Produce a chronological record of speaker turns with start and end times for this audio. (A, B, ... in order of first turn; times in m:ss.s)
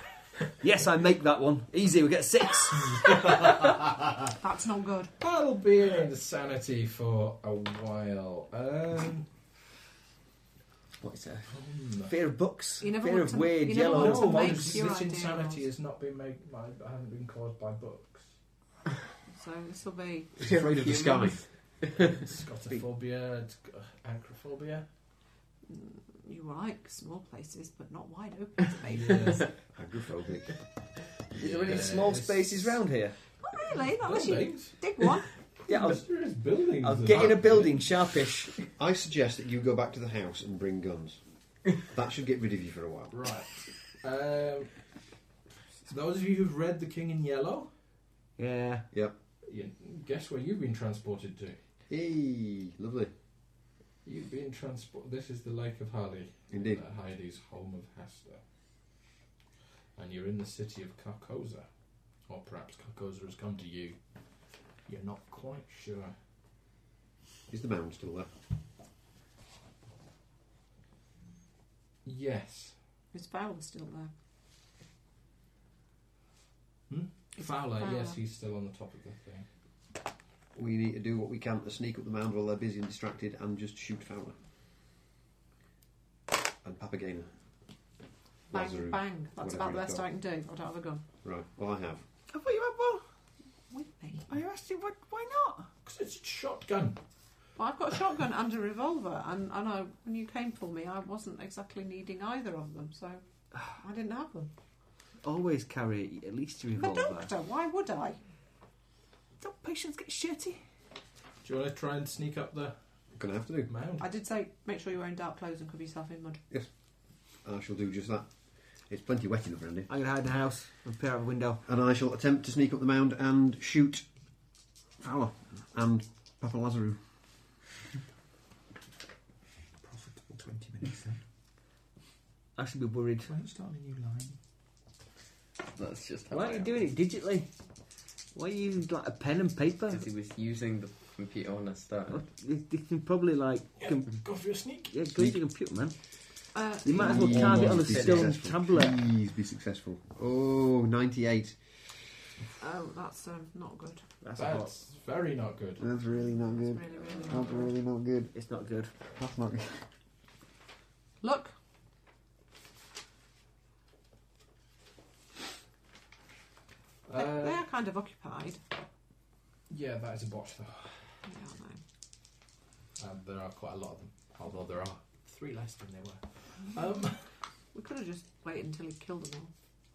0:00.6-0:03.0 A
0:04.4-0:05.1 B
0:05.2-0:09.3 C
0:11.0-0:14.8 A
0:11.5-0:12.1 C
0:12.8-0:15.7 B
0:13.8-0:18.3 C
0:19.3-0:20.3 B
0:20.4-0:21.4 D
0:20.4-0:21.4 E
0:21.9-0:24.8 C
0:25.7-0:29.5 B
0:28.8-0:29.5 C
0:29.7-0:30.6 D
0:31.3-0:33.2 A
0:31.4-0:32.8 C
0:33.5-0:35.3 B
0:33.7-0:34.8 C
0:35.6-0:38.0 C
0:35.7-0:36.0 A
0:36.8-0:38.6 A
0:38.8-0:43.1 D
0:43.1-0:45.0 C
0:45.9-0:47.7 C
0:48.4-0:48.9 A
0:49.4-0:51.6 C
0:51.9-0:53.1 D
0:54.0-0:58.4 C
0:56.5-0:56.8 D
1:00.0-1:01.7 C
1:02.2-1:04.0 C
1:04.8-1:06.1 C
1:07.5-1:08.3 D
1:12.0-1:12.8 C
1:13.1-1:14.1 B
1:16.9-1:19.5 C
1:17.4-1:18.2 B
1:20.5-1:24.4 D
1:26.6-1:27.3 D
1:28.5-1:30.0 D
1:28.5-1:31.0 B
1:31.2-1:32.0 D
1:32.3-1:33.0 A
1:33.7-1:34.3 B
1:34.3-1:35.7 A
1:35.8-1:37.0 C
1:37.6-1:43.2 B
1:43.8-1:44.5 B
1:45.2-1:47.3 A
1:46.8-1:48.2 B
1:49.4-1:50.6 A
1:51.4-1:52.8 C
1:53.1-1:53.7 D
1:53.7-1:54.1 C
1:54.0-1:56.4 B
1:57.4-1:59.9 D
1:59.9-2:01.6 A
2:01.6-2:04.1 D
2:05.0-2:07.0 D
2:09.8-2:11.2 F
2:12.6-2:13.3 A
2:13.2-2:14.4 F
2:15.6-2:16.8 E
2:16.3-2:17.5 A
2:18.3-2:20.0 A
2:19.9-2:22.2 E
2:22.1-2:24.1 A
2:23.8-2:24.9 C
2:24.9-2:26.0 A
2:26.5-2:27.4 B
2:26.8-2:29.0 A
2:27.0-2:32.0 D
2:27.1-2:28.0 C
2:27.8-2:28.3 E
2:32.6-2:34.0 B
2:34.2-2:34.7 A
2:34.4-2:35.8 C
2:35.8-2:38.3 D
2:36.2-2:37.7 B
2:38.3-2:38.9 A
2:39.1-2:39.8 D
2:41.2-2:41.5 B
2:47.1-2:47.6 C
2:47.1-2:48.6 B
2:49.7-2:51.1 C
2:51.2-2:51.8 B
2:53.0-2:57.3 C
2:57.7-2:59.5 B